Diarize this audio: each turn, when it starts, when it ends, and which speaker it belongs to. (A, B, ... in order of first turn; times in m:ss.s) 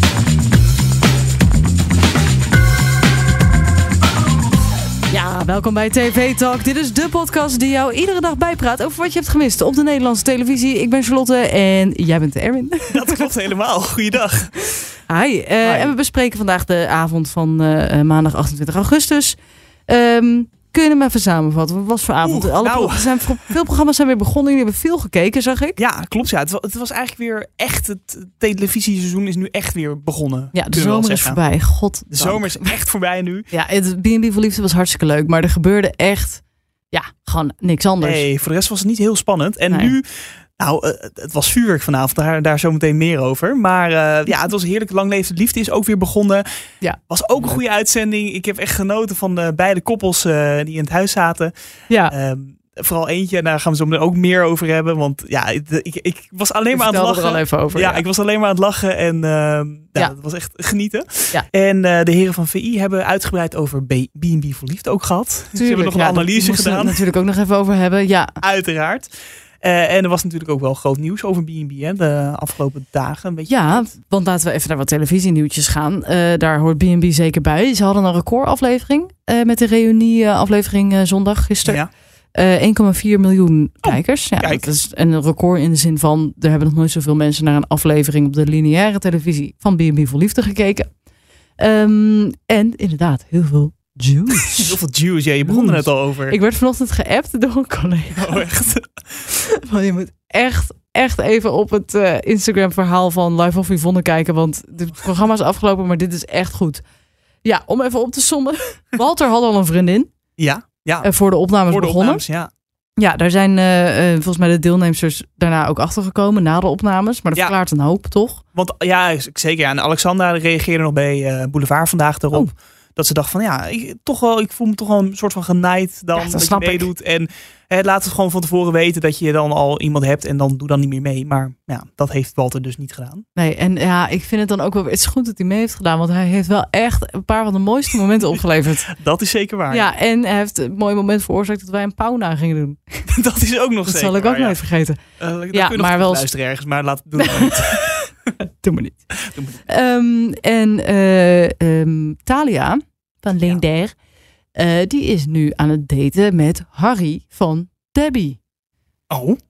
0:05.1-0:13.2 A
0:12.9-0:14.7 B
0:15.1-0:19.4 A
0:15.6-0:15.9 B
0:19.9-0:25.8 A
0:22.2-0:23.5 B
0:25.8-0:31.4 B
0:30.5-0:32.7 A
0:32.1-0:33.5 B
0:33.5-0:38.2 A
0:38.0-0:40.1 B
0:40.6-0:46.4 B
0:46.8-0:47.5 A
0:47.1-0:51.5 B
0:51.9-0:52.1 A
0:52.1-1:07.0 B
0:56.7-0:58.0 A
1:05.6-1:08.4 A
1:08.4-1:09.1 B
1:09.6-1:13.8 B
1:13.5-1:21.8 A
1:22.3-1:30.9 A
1:23.8-1:24.6 B
1:31.6-1:34.7 A
1:34.6-1:36.4 B
1:35.4-1:38.4 A
1:38.2-1:38.9 B
1:39.3-1:46.8 A
1:47.4-1:50.1 A
1:50.4-1:52.5 B
1:51.0-1:52.2 A
1:53.0-1:58.4 A
1:58.5-2:13.2 B
2:06.2-2:06.9 A
2:13.4-2:18.9 A
2:18.9-2:19.9 B
2:19.7-2:23.0 A
2:23.1-2:24.6 B
2:23.8-2:25.0 A
2:25.2-2:28.0 B
2:25.5-2:26.2 A
2:27.2-2:29.0 A
2:29.2-2:29.6 B
2:29.7-2:33.9 A
2:34.6-2:38.4 A
2:39.1-2:39.4 B